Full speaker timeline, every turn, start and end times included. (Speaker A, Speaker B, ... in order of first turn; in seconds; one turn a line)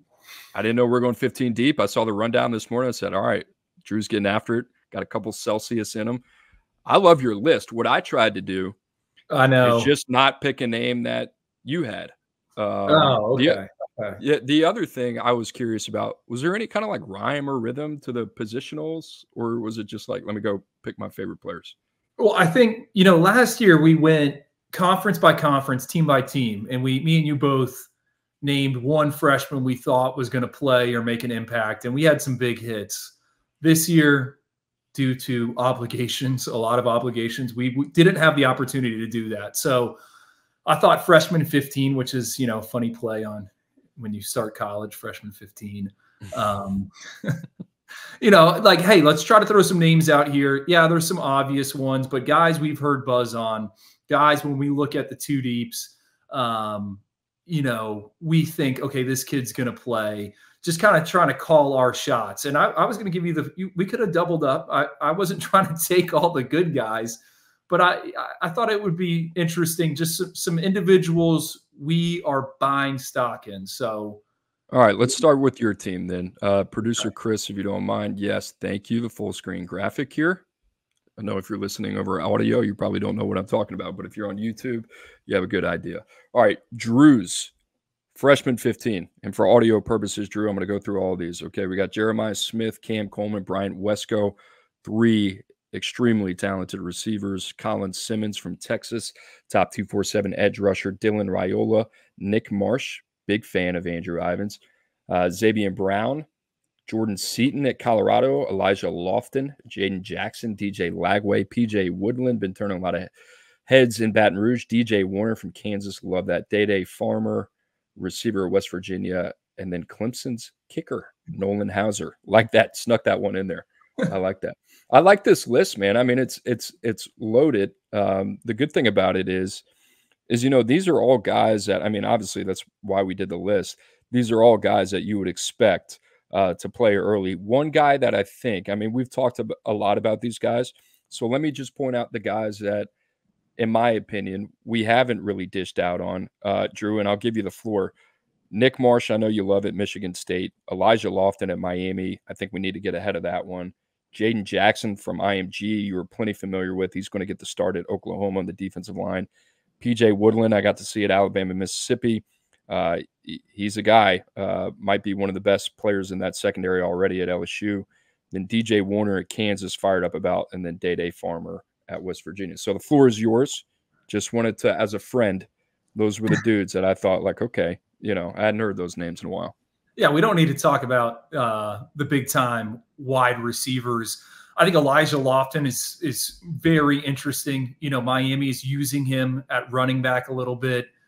Speaker A: 0.5-6.2
Speaker A: 6.8-8.8
Speaker B: 9.3-9.9
Speaker A: 9.6-13.6
Speaker B: 12.9-14.2
Speaker A: 14.2-21.7
Speaker B: 22.2-27.9
Speaker B: 28.4-34.4
Speaker B: 34.9-40.0
Speaker B: 40.6-47.4
Speaker B: 48.2-74.2
Speaker A: 74.7-80.4
Speaker A: 81.2-87.5
Speaker A: 88.1-106.3
Speaker A: 106.8-113.1
Speaker A: 113.7-129.6
Speaker A: 130.3-142.9
Speaker A: 143.6-147.9
Speaker A: 148.5-159.3
Speaker A: 159.8-179.5
Speaker B: 180.0-190.9